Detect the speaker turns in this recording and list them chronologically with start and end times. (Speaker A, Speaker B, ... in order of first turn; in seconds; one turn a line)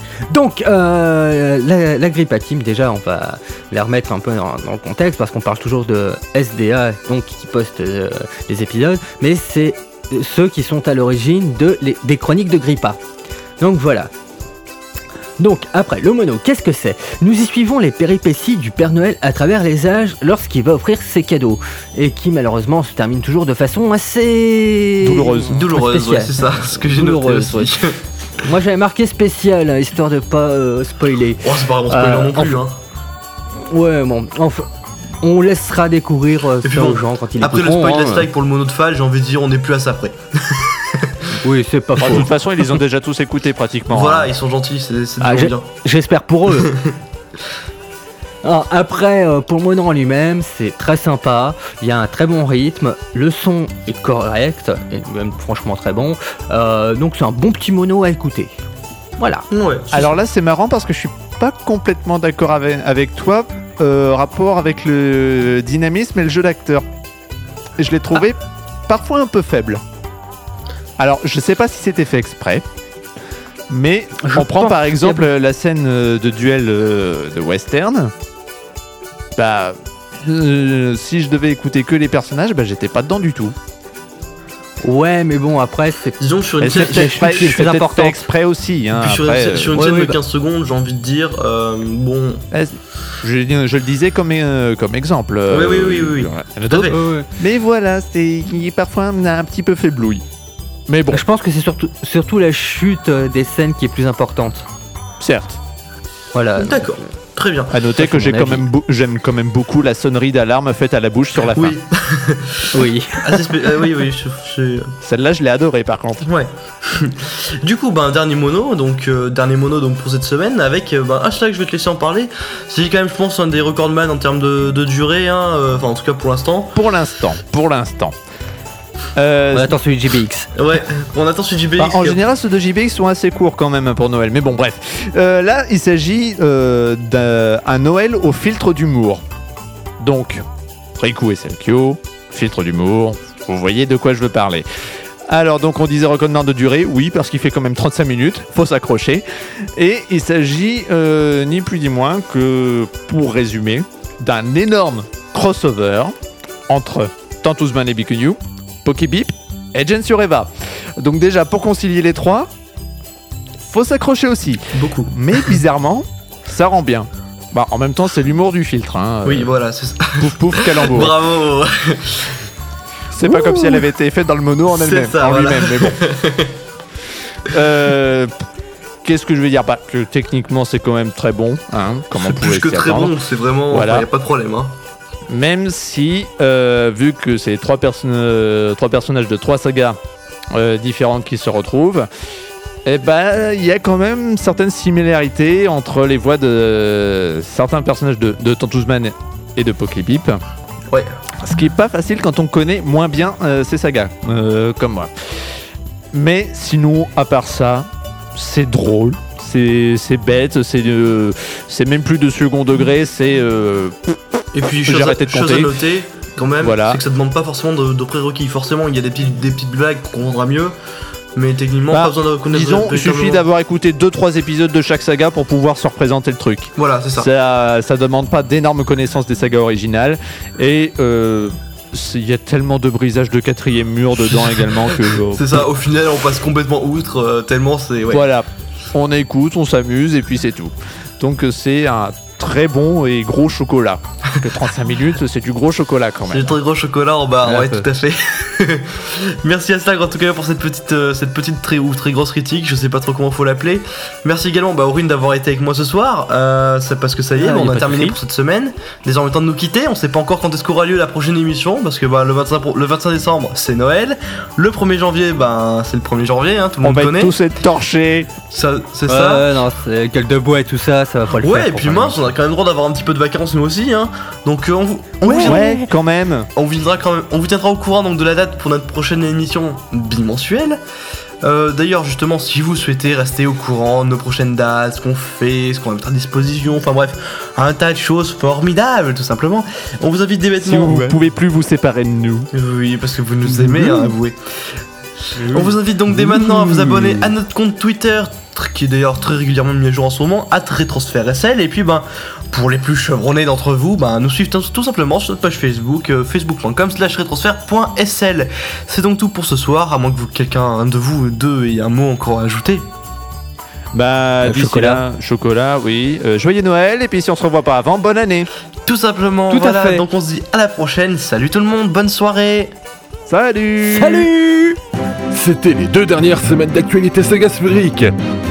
Speaker A: 0.3-13.0
Speaker A: 13.6-14.1
Speaker A: 15.4-27.7
Speaker B: 25.0-25.6
Speaker C: 25.5-28.0
Speaker A: 28.4-32.6
Speaker C: 31.4-32.8
Speaker A: 33.6-34.7
Speaker A: 35.2-38.3
Speaker C: 36.6-41.2
Speaker A: 41.4-42.3
Speaker B: 42.0-44.3
Speaker C: 43.9-45.6
Speaker A: 45.2-46.7
Speaker C: 46.5-47.0
Speaker A: 48.4-58.5
Speaker A: 59.2-59.5
Speaker C: 59.5-60.2
Speaker B: 59.9-66.8
Speaker B: 67.8-69.8
Speaker B: 71.0-72.6
Speaker B: 73.7-78.1
Speaker A: 74.2-75.2
Speaker B: 79.4-83.5
Speaker A: 84.8-88.3
Speaker C: 86.2-87.5
Speaker B: 86.6-89.8
Speaker C: 88.9-92.4
Speaker A: 89.7-90.2
Speaker B: 92.5-100.2
Speaker C: 95.5-97.0
Speaker A: 96.9-97.3
Speaker B: 100.9-101.2
Speaker A: 101.1-104.7
Speaker B: 105.2-105.6
Speaker A: 106.3-107.0
Speaker C: 106.6-107.7
Speaker B: 107.7-111.8
Speaker A: 108.0-108.6
Speaker C: 111.5-114.9
Speaker A: 112.7-113.4
Speaker B: 115.0-116.2
Speaker C: 116.2-126.7
Speaker B: 126.7-128.1
Speaker B: 129.2-129.8
Speaker A: 129.5-130.5
Speaker C: 130.5-132.2
Speaker B: 131.8-139.2
Speaker B: 140.0-140.4
Speaker B: 141.0-144.7
Speaker B: 145.3-149.2
Speaker B: 149.8-156.1
Speaker B: 156.7-162.5
Speaker B: 163.6-169.5
Speaker C: 164.7-165.1
Speaker C: 169.2-172.5
Speaker B: 170.2-171.2
Speaker B: 173.1-176.0
Speaker C: 173.2-173.8
Speaker C: 174.7-176.6
Speaker B: 177.4-178.3
Speaker B: 179.0-183.1
Speaker C: 182.1-184.7
Speaker B: 183.7-184.1
Speaker B: 185.3-190.0
Speaker B: 190.5-192.1
Speaker B: 192.8-200.4
Speaker B: 201.4-205.5
Speaker B: 206.1-214.2
Speaker C: 214.5-220.7
Speaker B: 214.8-215.8
Speaker B: 216.6-217.0
Speaker C: 221.3-223.4
Speaker B: 221.9-235.7
Speaker C: 226.8-227.3
Speaker C: 234.5-238.2
Speaker B: 238.1-246.5
Speaker C: 246.3-267.3
Speaker B: 247.4-247.8
Speaker B: 257.4-258.1
Speaker B: 266.8-268.3
Speaker C: 268.5-269.5
Speaker A: 269.1-272.3
Speaker C: 271.4-275.7
Speaker A: 275.2-275.8
Speaker B: 275.4-276.5
Speaker C: 276.6-280.8
Speaker C: 281.4-291.1
Speaker B: 290.6-292.5
Speaker C: 292.5-294.8
Speaker C: 295.4-312.9
Speaker B: 313.9-318.5
Speaker A: 314.4-315.0
Speaker C: 318.8-322.7
Speaker A: 319.5-320.0
Speaker B: 323.3-324.3
Speaker A: 323.9-324.8
Speaker D: 325.3-328.1